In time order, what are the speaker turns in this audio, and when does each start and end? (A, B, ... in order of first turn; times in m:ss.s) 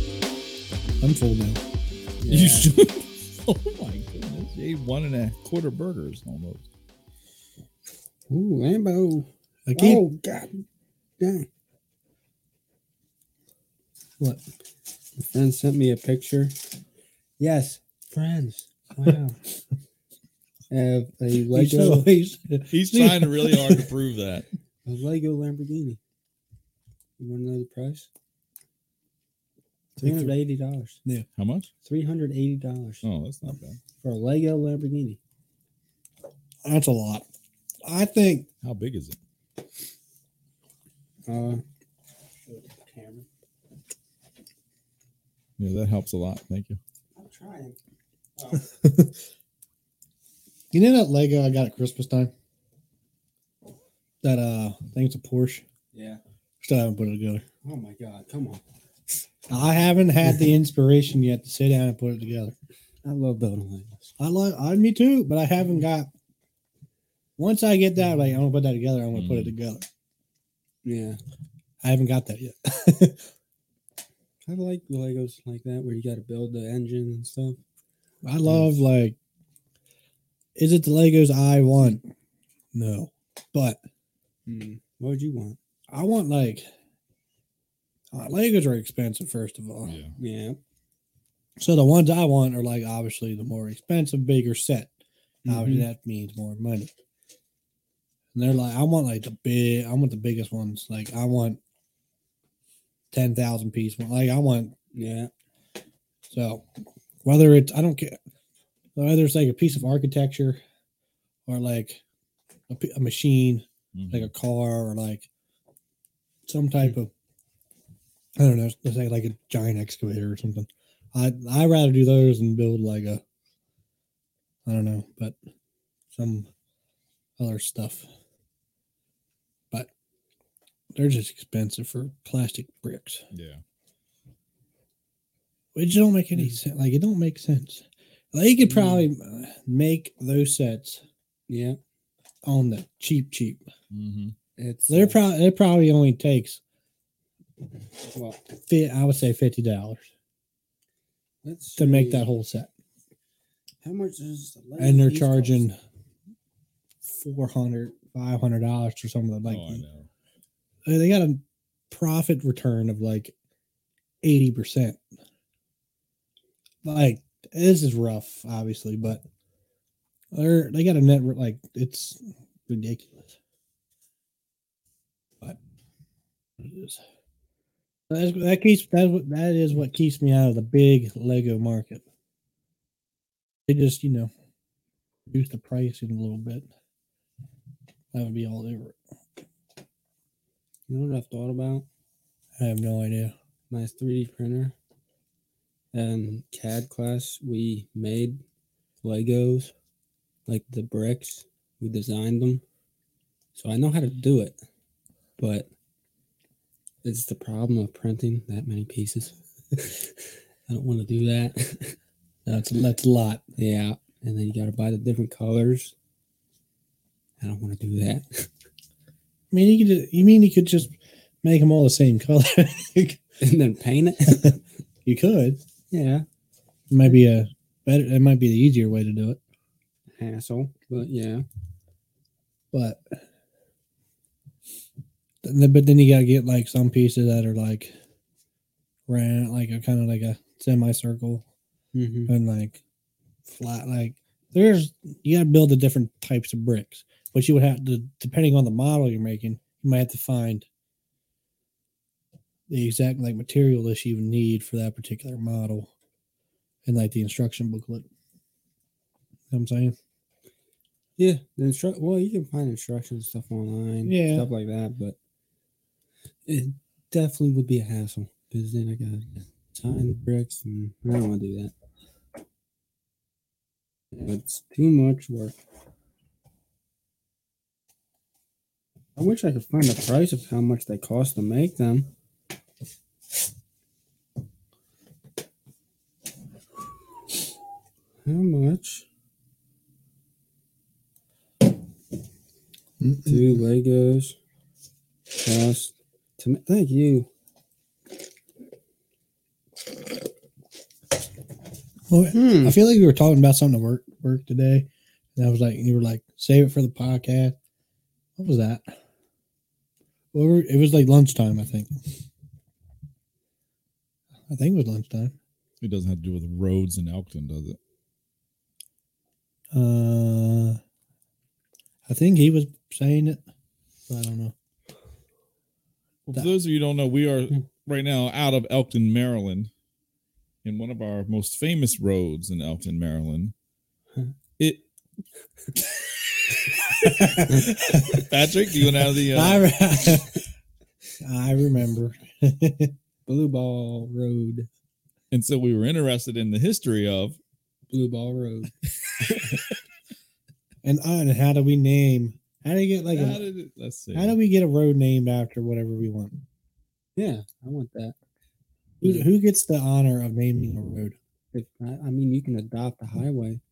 0:01.0-0:01.6 A
0:02.2-0:02.7 B
0:02.3-0:06.6 C
0:08.3-0:10.6 B
0:09.7-0:10.0 A
0:11.2-0:11.5 B
0:15.2-0:16.5 B
0:17.4-0:19.4 B
0:20.7-0:22.1 B
0:21.5-0:23.8 A
0:22.7-0:24.5 C
0:24.8-0:26.0 B
0:27.2-0:28.1 B
0:30.0-0:30.3 A
0:30.0-0:31.0 B
0:31.4-0:31.7 C
0:31.8-0:33.0 B
0:33.0-0:33.8 C
0:34.0-0:35.2 B
0:36.6-0:37.3 A
0:37.8-0:38.5 A
0:38.6-0:39.2 C
0:41.2-0:41.6 B
0:42.5-0:43.2 B
0:45.6-0:46.8 C
0:47.1-0:47.8 B
0:48.4-0:48.7 B
0:48.8-0:49.1 A
0:50.7-0:52.3 A
0:54.2-0:55.6 A
0:55.9-0:56.2 B
0:56.6-0:57.4 A
0:57.6-0:58.6 B
0:59.5-1:02.5 A
1:03.0-1:04.1 B
1:04.2-1:06.1 A
1:07.4-1:09.8 A
1:09.1-1:09.5 C
1:10.8-1:11.2 B
1:11.8-1:13.3 A
1:14.5-1:17.6 B
1:18.2-1:19.2 A
1:18.4-1:18.7 B
1:20.6-1:22.1 A
1:22.7-1:23.8 A
1:24.5-1:25.6 B
1:25.9-1:26.7 A
1:28.1-1:29.9 A
1:29.8-1:30.1 C
1:30.2-1:30.6 B
1:31.6-1:34.9 A
1:35.4-1:35.9 B
1:35.5-1:36.9 A
1:38.3-1:41.6 A
1:43.1-1:44.7 A
1:44.9-1:45.3 B
1:46.3-1:46.6 A
1:47.2-1:48.2 A
1:49.0-1:50.6 A
1:51.5-1:52.0 A
1:52.7-1:55.3 A
1:53.9-1:54.3 C
1:56.4-1:57.1 A
1:58.4-2:03.2 A
2:04.6-2:05.4 A
2:06.1-2:06.5 A
2:07.4-2:08.1 A
2:10.9-2:13.2 A
2:13.3-2:13.6 C
2:15.7-2:21.0 A
2:18.6-2:19.1 B
2:21.5-2:21.8 B
2:22.4-2:23.6 A
2:23.9-2:24.3 C
2:24.6-2:25.2 B
2:24.9-2:26.6 A
2:28.1-2:28.4 B
2:28.6-2:30.1 A
2:31.4-2:32.3 B
2:31.8-2:32.7 A
2:33.8-2:35.6 B
2:34.8-2:35.8 A
2:37.0-2:39.8 A
2:39.4-2:40.1 C
2:40.8-2:43.3 A
2:44.2-2:45.0 A
2:46.8-2:49.2 A
2:50.3-2:53.3 A
2:56.6-2:57.0 A
2:58.1-3:02.0 A
3:03.7-3:04.3 A
3:05.3-3:06.7 A
3:08.1-3:09.0 A
3:10.9-3:11.8 B
3:12.6-3:13.3 A
3:13.7-3:14.8 B
3:15.9-3:18.4 B
3:19.0-3:19.7 B
3:20.5-3:22.6 B
3:23.5-3:24.6 B
3:25.4-3:25.7 B
3:27.0-3:30.1 B
3:30.7-3:32.0 B
3:32.4-3:33.4 A
3:33.6-3:35.9 B
3:37.4-3:38.5 B
3:39.5-3:43.2 A
3:43.4-3:44.6 B
3:45.0-3:45.6 A
3:45.9-3:46.2 B
3:46.9-3:49.4 A
3:50.2-3:51.4 B
3:52.7-3:53.2 A
3:55.4-3:57.9 A
3:59.1-4:01.4 A
4:01.9-4:02.3 B
4:02.3-4:02.8 A
4:03.4-4:10.7 A
4:12.7-4:15.9 A
4:16.8-4:18.0 A
4:19.5-4:20.0 A
4:21.2-4:25.2 B
4:24.0-4:24.5 A
4:26.5-4:31.7 B
4:34.1-4:35.6 B
4:39.2-4:42.1 B
4:48.2-4:49.0 B
4:53.0-4:53.6 A
4:53.2-4:54.4 B
4:55.4-4:57.3 B
5:02.1-5:07.6 A
5:02.3-5:02.8 B
5:08.4-5:08.9 A
5:10.3-5:12.0 A
5:14.5-5:15.3 A
5:15.8-5:17.8 C
5:19.7-5:20.8 A
5:22.0-5:23.4 A
5:24.1-5:24.5 A
5:26.2-5:29.7 C
5:30.6-5:33.5 C
5:36.9-5:38.2 A
5:37.5-5:38.2 B
5:38.0-5:39.7 C
5:39.3-5:40.4 A
5:41.2-5:42.9 A
5:43.3-5:44.7 B
5:45.3-5:47.4 C
5:47.9-5:49.7 B
5:50.8-5:53.4 A
5:53.1-5:54.3 C
5:54.1-5:56.4 A
5:57.2-5:58.1 B
5:59.0-5:59.3 B
5:59.0-6:01.1 A
6:01.5-6:03.6 B